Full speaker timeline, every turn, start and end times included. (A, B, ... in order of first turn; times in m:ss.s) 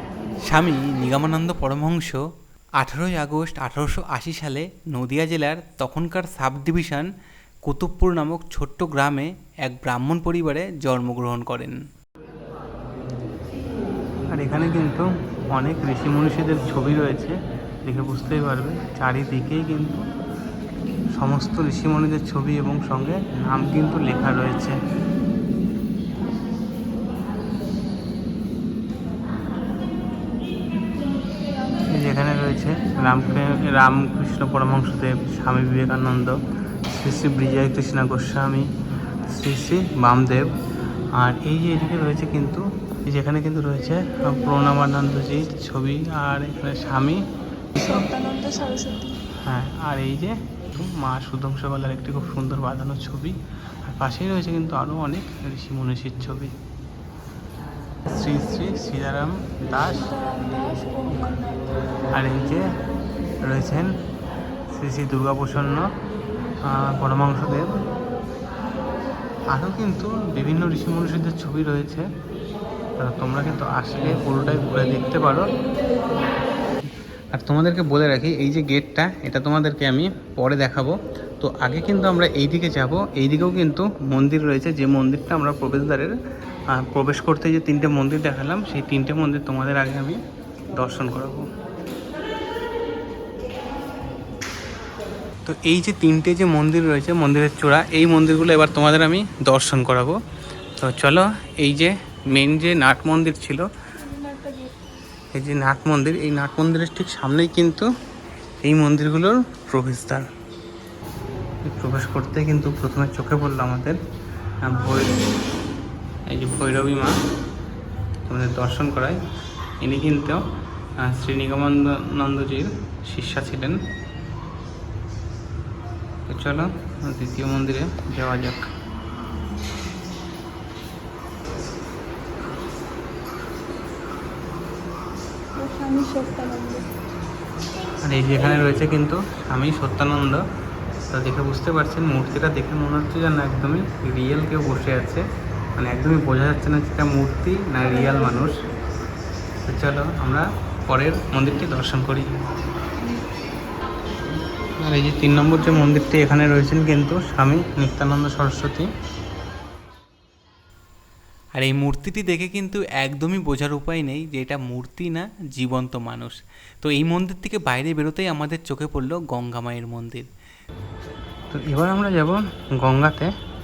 0:00.4-0:02.3 A
0:02.8-0:07.1 A
0:07.6-0:11.8 A
0:14.3-0:20.0 B
0:21.1-0:24.8 B
0:31.9-0:38.7 B
0:39.3-0:40.6 B
0:41.2-0:47.2 B
0:47.8-0:49.2 C
0:49.4-0:56.6 B
0:58.1-1:00.1 B
0:59.9-1:01.6 C
1:02.1-1:02.8 B
1:03.4-1:04.0 B
1:04.7-1:05.9 B
1:06.6-1:07.8 B
1:09.5-1:12.1 B
1:13.0-1:15.5 B
1:17.3-1:26.2 B
1:26.7-1:30.2 B
1:30.7-1:31.5 B
1:35.4-1:40.2 B
1:40.8-1:43.7 B
1:44.0-1:45.0 C
1:45.3-1:47.9 B
1:48.6-1:50.3 B
1:51.6-1:54.0 B
1:54.6-1:55.2 B
1:56.3-1:57.2 B
1:58.3-1:59.2 B
1:59.8-2:00.4 B
2:01.0-2:03.8 B
2:06.3-2:08.7 B
2:15.6-2:16.9 C
2:18.0-2:20.4 B
2:21.1-2:25.2 B
2:25.8-2:28.6 B
2:28.0-2:28.5 C
2:29.6-2:32.3 B
2:34.8-2:38.9 B
2:41.6-2:50.3 A
2:51.5-2:53.3 B